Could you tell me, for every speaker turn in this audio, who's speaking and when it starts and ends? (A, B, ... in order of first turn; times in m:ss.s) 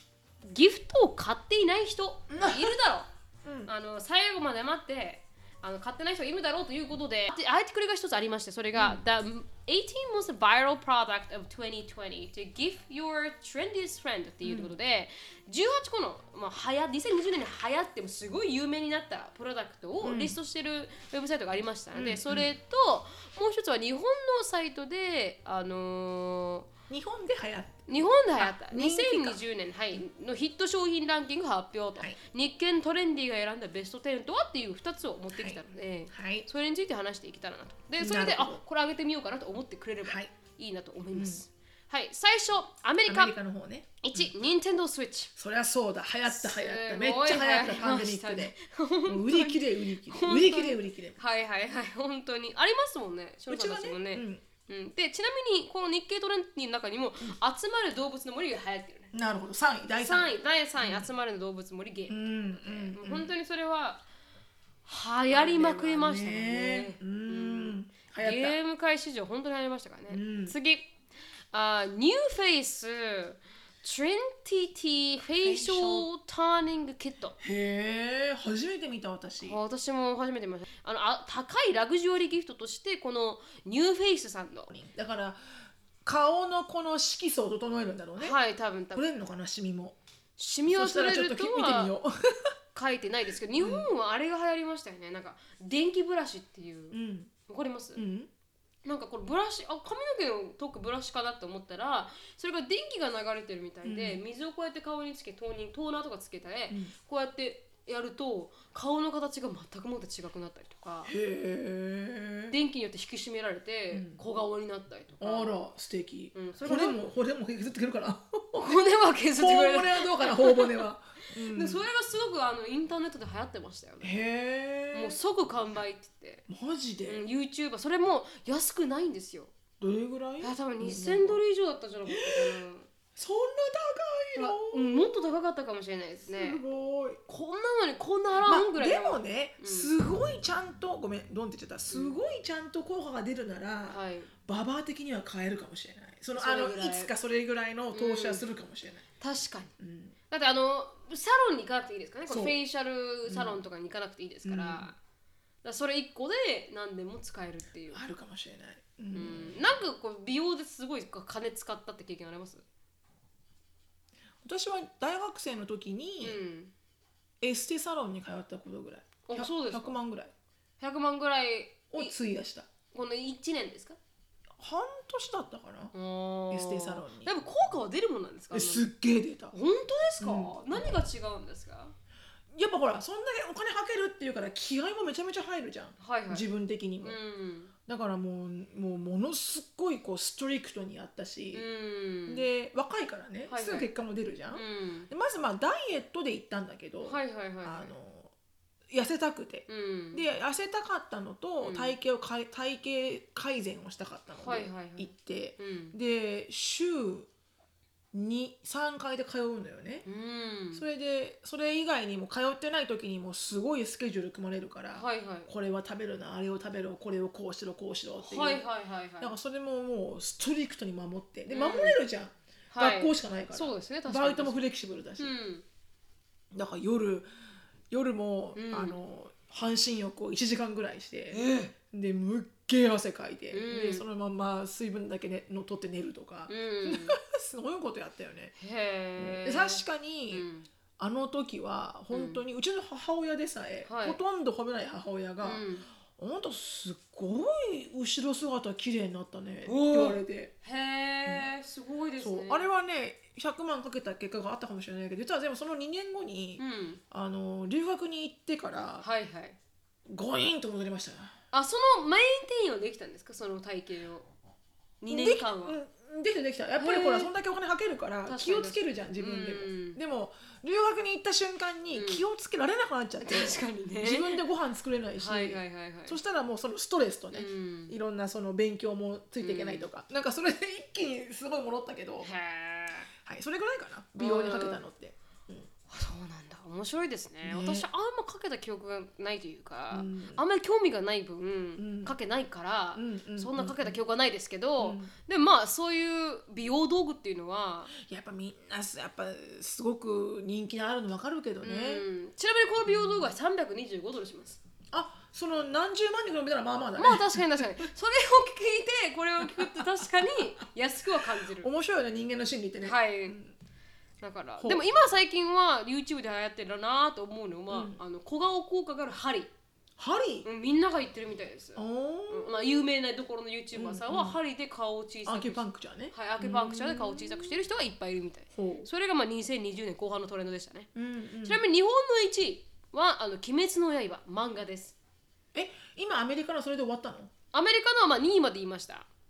0:00.4-0:03.1 A
0:02.3-0:02.8 B
0:03.4-0:03.7 B
0:03.6-0:26.7 A
0:08.7-0:09.0 B
0:14.4-0:14.7 B
0:20.0-0:20.4 B
0:21.9-0:22.5 B
0:26.9-0:29.4 B
0:27.9-0:43.3 A
0:35.3-0:36.5 B
0:38.0-0:38.6 B
0:40.0-0:40.3 B
0:41.1-0:41.4 B
0:43.0-0:44.3 B
0:44.0-0:45.3 A
0:45.4-0:48.5 B
0:46.3-0:59.1 A
0:49.0-0:51.2 B
0:53.5-0:54.4 B
0:59.1-1:01.1 B
1:00.0-1:04.0 A
1:02.1-1:03.3 B
1:04.8-1:10.9 A
1:05.3-1:08.6 B
1:10.1-1:10.5 B
1:11.5-1:17.4 A
1:15.4-1:16.1 B
1:17.4-1:19.6 B
1:19.4-1:24.7 A
1:24.7-1:25.4 B
1:26.0-1:28.4 B
1:28.2-1:29.0 A
1:28.9-1:30.0 B
1:30.4-1:31.9 A
1:30.6-1:32.5 B
1:32.7-1:37.0 A
1:33.6-1:33.9 B
1:36.9-1:37.3 B
1:37.5-1:38.0 A
1:38.0-1:38.3 B
1:38.8-1:51.1 A
1:43.8-1:44.2 B
1:51.0-1:52.6 B
1:52.5-1:55.6 A
1:53.9-1:54.2 B
1:55.2-1:58.8 B
1:56.3-1:57.0 A
1:58.6-2:04.1 A
1:59.4-2:01.8 B
2:04.0-2:05.2 B
2:04.9-2:06.4 A
2:06.5-2:07.2 B
2:07.1-2:09.5 A
2:09.8-2:11.4 B
2:10.4-2:12.9 A
2:12.1-2:12.6 B
2:13.2-2:15.1 B
2:14.3-2:16.6 A
2:16.3-2:17.2 B
2:17.3-2:19.9 A
2:18.4-2:29.0 B
2:21.9-2:22.2 A
2:23.9-2:24.3 A
2:26.3-2:27.1 A
2:27.9-2:28.4 A
2:29.2-2:29.7 A
2:29.8-2:30.1 B
2:30.3-2:34.9 A
2:32.3-2:32.6 B
2:33.2-2:33.6 B
2:34.4-2:34.9 B
2:35.6-2:38.0 A
2:37.9-2:39.7 B
2:39.1-2:42.6 A
2:44.4-2:46.4 B
2:46.2-2:46.7 A
2:47.4-2:50.3 B
2:49.2-2:50.0 A
2:50.8-2:52.1 A
2:51.9-2:52.7 B
2:52.9-2:54.0 A
2:54.6-2:55.9 B
2:55.9-2:58.9 A
2:56.5-2:57.3 B
2:58.5-2:59.5 B
2:59.5-3:01.9 A
3:00.2-3:01.0 B
3:02.5-3:07.2 B
3:06.0-3:06.5 A
3:07.0-3:07.7 A
3:07.9-3:11.6 B
3:11.5-3:12.5 A
3:12.3-3:18.3 B
3:13.5-3:13.9 A
3:14.5-3:15.1 A
3:17.0-3:17.9 A
3:18.9-3:27.3 B
3:19.7-3:20.2 A
3:21.6-3:22.0 A
3:24.4-3:26.0 A
3:28.1-3:30.0 B
3:30.0-3:30.8 A
3:30.7-3:38.6 B
3:34.9-3:35.5 A
3:38.2-3:39.3 A
3:39.2-3:45.3 B
3:41.5-3:42.0 A
3:42.7-3:44.6 A
3:45.2-3:45.6 A
3:46.5-3:47.3 B
3:47.9-3:58.5 B
3:48.6-3:49.0 A
3:51.3-3:51.7 A
3:53.5-3:54.0 A
3:56.5-3:57.2 A
3:58.6-4:00.7 A
3:59.2-4:00.5 B
4:01.0-4:05.6 B
4:02.1-4:02.4 A
4:03.8-4:04.2 A
4:05.4-4:05.9 A
4:06.2-4:10.5 B
4:09.6-4:12.7 A
4:12.2-4:19.0 B
4:16.6-4:17.0 A
4:19.0-4:19.6 A
4:20.1-4:21.4 B
4:21.5-4:24.2 A
4:25.0-4:25.8 A
4:25.1-4:42.3 B
4:26.8-4:27.3 A
4:28.2-4:30.0 A
4:31.9-4:32.2 A
4:33.2-4:34.4 A
4:35.2-4:36.2 A
4:37.3-4:38.0 A
4:39.4-4:39.9 A
4:42.2-4:43.1 A
4:43.2-4:45.7 B
4:44.2-4:44.8 A
4:45.9-4:57.9 A
4:47.4-4:47.9 B
4:49.9-4:50.4 B
4:51.8-4:52.1 B
4:52.9-4:54.0 B
4:54.8-4:55.1 B
4:57.9-5:02.0 B
5:01.6-5:04.6 A
5:02.8-5:03.3 B
5:04.9-5:07.7 B
5:07.0-5:11.7 A
5:09.4-5:10.5 B
5:11.4-5:13.5 B
5:12.8-5:13.4 A
5:14.2-5:19.5 A
5:14.6-5:14.9 B
5:17.7-5:18.0 B
5:20.0-5:20.5 B
5:20.4-5:30.9 A
5:21.8-5:22.8 B
5:23.7-5:24.4 B
5:25.2-5:27.6 B
5:28.5-5:28.9 B
5:30.9-5:31.6 B
5:31.4-5:35.0 A
5:35.5-5:37.3 B
5:37.5-5:39.1 A